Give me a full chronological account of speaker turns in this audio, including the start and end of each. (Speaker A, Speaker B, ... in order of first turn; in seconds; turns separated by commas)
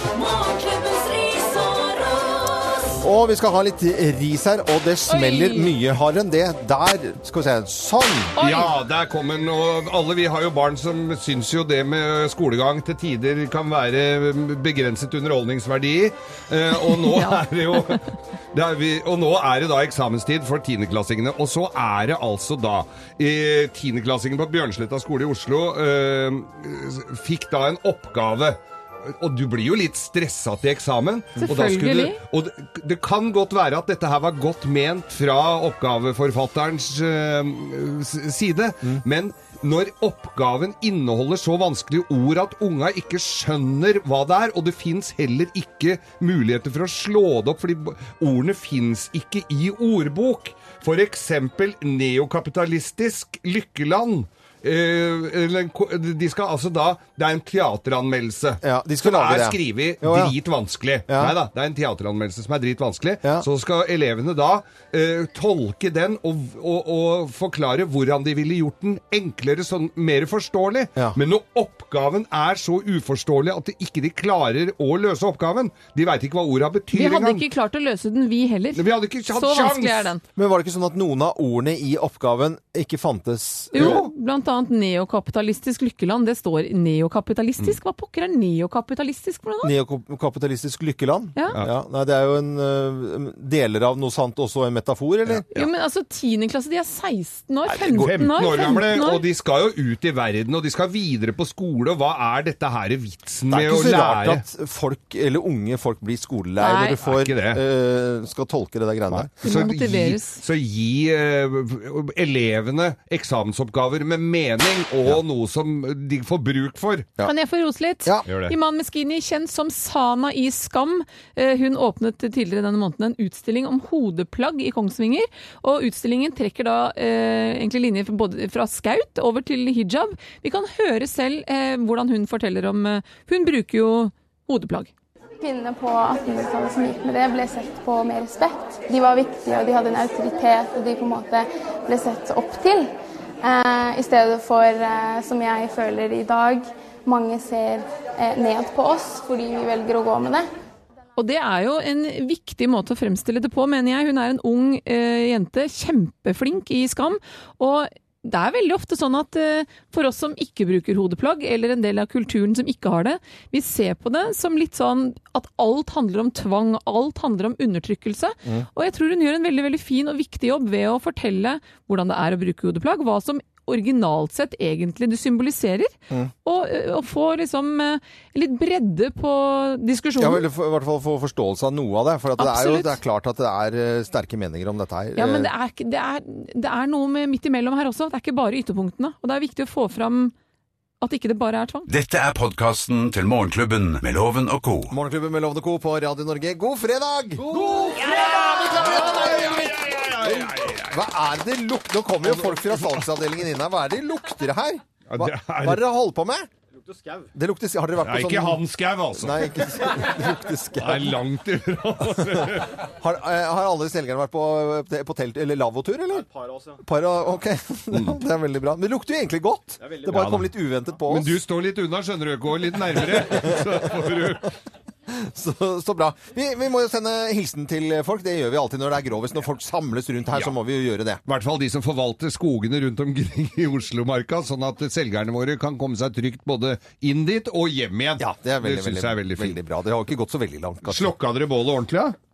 Speaker A: 0.1-3.0, Speaker B: 3.0-8.3, Speaker C: 5.1-5.7, Speaker C: 8.4-8.7, Speaker D: 8.4-77.5, Speaker C: 16.9-18.0, Speaker C: 31.4-32.2, Speaker B: 58.6-60.4, Speaker B: 61.1-61.4, Speaker C: 76.9-80.2, Speaker D: 78.8-80.1, Speaker B: 80.4-84.0, Speaker C: 83.7-89.7, Speaker D: 83.8-84.1, Speaker B: 89.6-95.5, Speaker D: 95.3-95.7, Speaker C: 95.5-99.2, Speaker D: 97.7-104.4, Speaker B: 103.5-109.3, Speaker C: 106.6-107.0, Speaker D: 107.0-107.6, Speaker D: 109.1-117.1, Speaker C: 109.4-110.4, Speaker C: 117.2-134.9, Speaker D: 118.3-118.5, Speaker E: 135.4-142.9, Speaker E: 143.4-150.5, Speaker C: 151.2-180.4, Speaker B: 180.2-185.5, Speaker C: 182.4-183.0, Speaker C: 185.2-190.3, Speaker C: 191.0-191.9, Speaker F: 191.9-194.9, Speaker B: 194.9-206.5, Speaker D: 197.4-201.0, Speaker D: 202.2-203.1, Speaker D: 205.1-205.9, Speaker B: 207.3-208.6, Speaker D: 208.0-210.1, Speaker B: 209.1-211.2, Speaker D: 210.8-212.9, Speaker B: 212.9-221.4, Speaker D: 217.9-218.2, Speaker D: 219.9-220.5, Speaker D: 221.1-224.6, Speaker B: 223.2-223.8, Speaker B: 225.1-231.2, Speaker D: 231.3-239.6, Speaker B: 238.2-241.1, Speaker D: 240.9-242.2